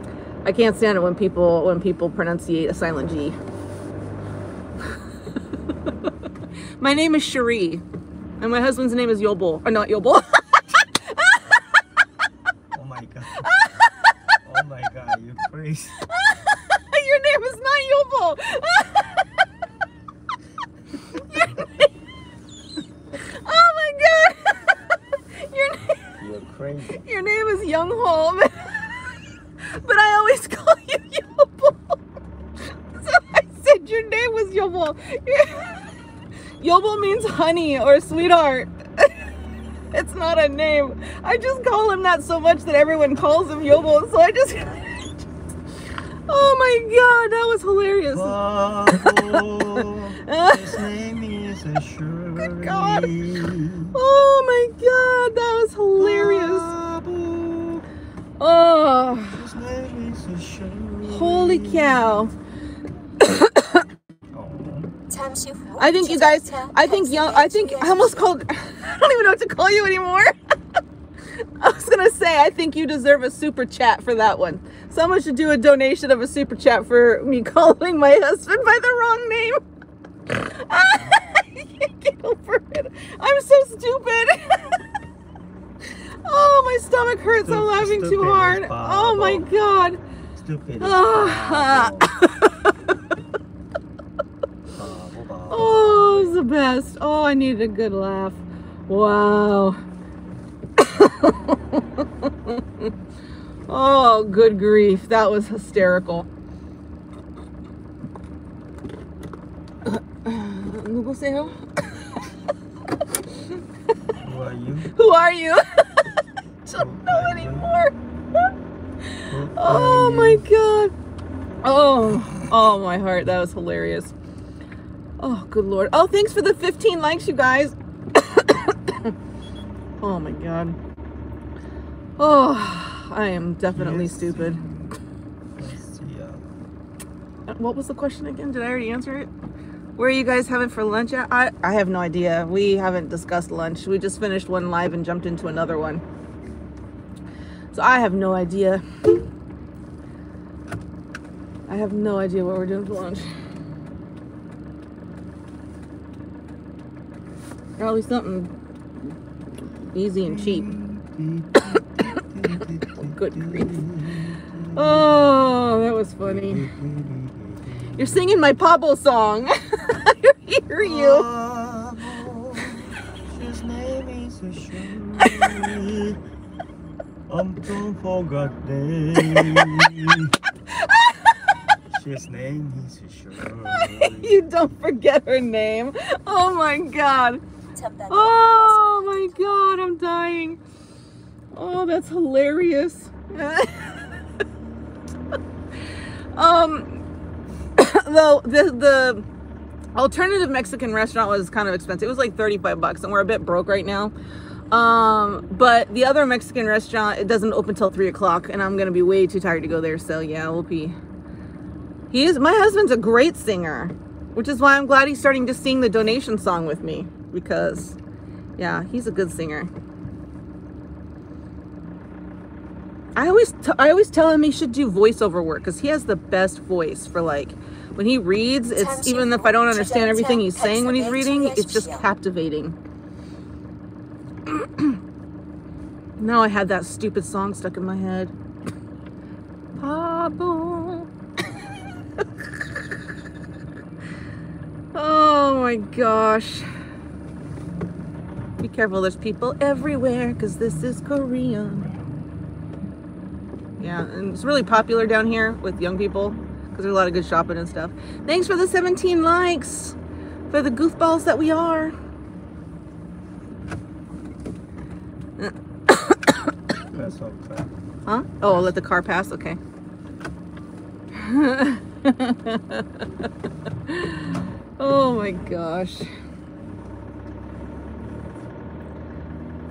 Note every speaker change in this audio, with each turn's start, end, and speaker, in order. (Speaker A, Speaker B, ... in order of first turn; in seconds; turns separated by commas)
Speaker A: 0.4-3.4, Speaker A: 6.8-7.8, Speaker A: 8.4-11.7, Speaker B: 12.7-13.5, Speaker A: 13.4-14.3, Speaker B: 14.4-16.0, Speaker A: 16.0-19.4, Speaker A: 21.1-21.9, Speaker A: 23.1-26.2, Speaker B: 26.2-27.0, Speaker A: 26.9-29.0, Speaker A: 29.6-31.8, Speaker A: 32.9-35.8, Speaker A: 36.6-39.1, Speaker A: 39.9-45.2, Speaker A: 46.3-48.4, Speaker B: 48.1-53.9, Speaker A: 48.9-49.4, Speaker A: 50.2-50.9, Speaker A: 52.4-53.3, Speaker A: 53.9-56.7, Speaker B: 56.0-57.9, Speaker A: 58.4-59.4, Speaker B: 59.3-62.2, Speaker A: 61.0-62.3, Speaker A: 63.2-63.9, Speaker B: 64.3-64.9, Speaker C: 65.1-68.3, Speaker A: 65.8-70.3, Speaker A: 71.6-79.6, Speaker A: 80.3-84.8, Speaker A: 86.2-90.0, Speaker B: 87.2-89.5, Speaker B: 90.3-92.1, Speaker A: 90.8-92.7, Speaker B: 94.7-96.4, Speaker A: 95.5-99.8, Speaker A: 100.8-102.9, Speaker A: 103.7-106.2, Speaker A: 109.8-112.2, Speaker B: 114.2-114.9, Speaker A: 114.9-116.1, Speaker A: 116.6-117.9, Speaker B: 116.8-117.7, Speaker A: 119.2-120.9, Speaker B: 119.3-120.4, Speaker A: 121.6-124.1, Speaker A: 125.2-129.1, Speaker A: 130.0-130.8, Speaker A: 132.2-134.6, Speaker B: 133.7-134.9, Speaker B: 135.6-136.4, Speaker A: 137.5-139.3, Speaker A: 140.0-146.0, Speaker A: 147.7-148.8, Speaker A: 151.7-153.3, Speaker A: 157.8-158.5, Speaker A: 159.9-160.7, Speaker B: 160.2-165.1, Speaker A: 163.1-163.8, Speaker A: 164.7-166.6, Speaker B: 166.2-168.4, Speaker A: 168.0-171.2, Speaker B: 170.8-176.2, Speaker A: 175.2-175.6, Speaker B: 177.3-180.3, Speaker A: 180.7-181.5, Speaker B: 181.9-184.4, Speaker A: 183.7-187.4, Speaker C: 187.7-189.8, Speaker A: 188.1-190.6, Speaker A: 191.5-194.2, Speaker A: 196.3-197.0, Speaker A: 197.8-199.2, Speaker A: 199.9-204.1, Speaker A: 204.7-210.9, Speaker A: 212.1-218.0, Speaker A: 218.6-219.7, Speaker A: 223.2-232.8, Speaker C: 228.7-232.0, Speaker A: 234.5-235.0, Speaker A: 236.2-238.3, Speaker A: 239.8-241.1, Speaker A: 244.9-246.7, Speaker A: 248.6-251.9, Speaker A: 253.8-259.9, Speaker A: 260.5-261.9, Speaker A: 265.4-266.5, Speaker B: 266.9-267.7, Speaker A: 268.1-269.6, Speaker A: 271.1-273.0, Speaker A: 273.9-276.1